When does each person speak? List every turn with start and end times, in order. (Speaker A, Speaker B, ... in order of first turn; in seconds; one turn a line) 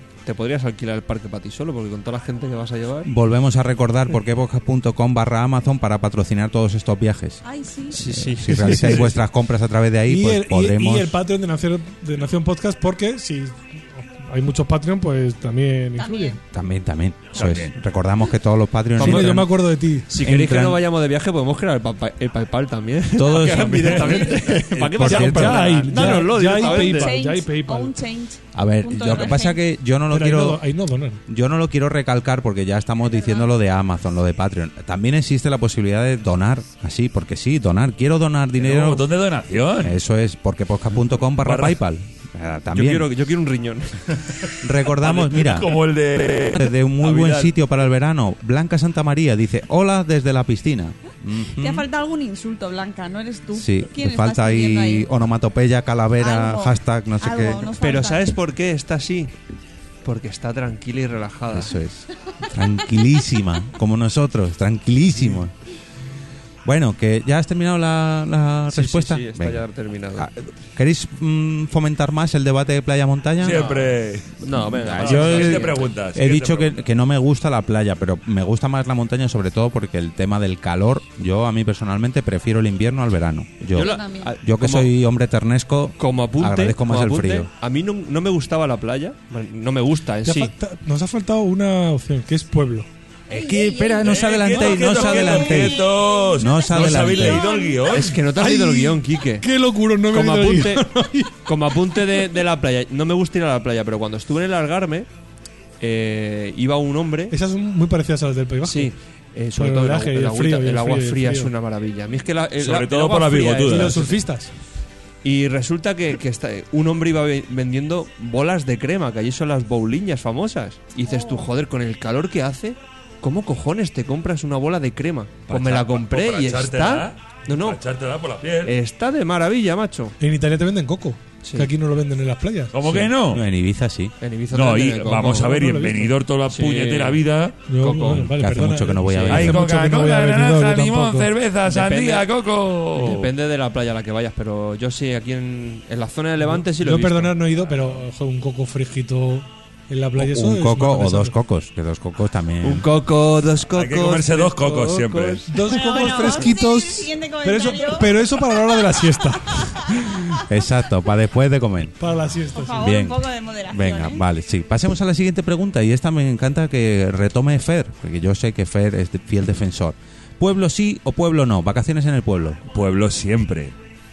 Speaker A: 0.2-3.1
Speaker B: 3.0-7.4
Speaker C: 7.4-8.1
Speaker A: 7.9-9.1
Speaker B: 8.1-11.2
Speaker D: 8.5-9.1
Speaker D: 10.1-16.4
Speaker C: 15.9-16.4
Speaker B: 16.5-19.6
Speaker E: 17.3-17.8
Speaker D: 19.0-20.1
Speaker A: 19.0-19.4
Speaker A: 20.1-27.1
Speaker B: 20.1-20.8
Speaker B: 23.1-25.7
Speaker E: 23.4-24.8
Speaker C: 24.0-24.4
Speaker D: 25.0-27.9
Speaker C: 26.5-29.6
Speaker B: 28.5-30.6
Speaker D: 30.1-31.2
Speaker B: 31.3-39.0
Speaker C: 33.1-33.5
Speaker E: 38.6-40.0
Speaker B: 39.8-43.1
Speaker E: 41.4-41.8
Speaker A: 42.7-44.2
Speaker B: 44.6-45.8
Speaker E: 45.0-47.4
Speaker B: 46.5-51.9
Speaker C: 51.6-55.1
Speaker B: 53.5-57.7
Speaker C: 56.2-58.3
Speaker A: 57.8-59.3
Speaker A: 60.0-61.7
Speaker B: 61.5-65.5
Speaker B: 66.6-69.6
Speaker A: 68.7-70.3
Speaker B: 70.2-73.8
Speaker E: 73.4-76.8
Speaker A: 73.4-75.8
Speaker B: 74.5-87.5
Speaker C: 83.7-84.3
Speaker A: 83.7-84.9
Speaker A: 86.0-90.5
Speaker D: 90.2-92.9
Speaker B: 93.3-97.5
Speaker C: 93.3-98.1
Speaker E: 94.0-98.2
Speaker A: 97.9-99.5
Speaker D: 98.3-101.3
Speaker A: 100.1-100.8
Speaker A: 101.4-105.1
Speaker A: 105.8-107.3
Speaker D: 107.3-108.9
Speaker A: 108.6-114.2
Speaker D: 109.5-111.5
Speaker E: 112.6-114.0
Speaker D: 113.6-114.5
Speaker A: 115.2-127.8
Speaker C: 121.0-121.5
Speaker E: 125.5-128.7
Speaker A: 128.6-130.1
Speaker D: 130.2-133.0
Speaker A: 131.4-131.7
Speaker E: 132.7-133.4
Speaker B: 133.3-134.1
Speaker A: 134.2-135.5
Speaker E: 134.5-137.6
Speaker D: 135.2-136.1
Speaker A: 136.5-137.2
Speaker D: 137.7-141.3
Speaker A: 137.8-138.3
Speaker B: 138.2-139.7
Speaker A: 139.0-139.5
Speaker E: 139.3-143.3
Speaker A: 141.7-142.3
Speaker A: 142.9-147.3
Speaker D: 146.5-151.3
Speaker B: 150.2-152.8
Speaker A: 152.6-156.4
Speaker E: 153.7-155.5
Speaker D: 155.5-159.8
Speaker C: 155.6-160.4
Speaker B: 160.3-162.0
Speaker D: 162.0-162.9
Speaker C: 162.5-164.2
Speaker B: 162.8-172.6
Speaker E: 172.7-173.7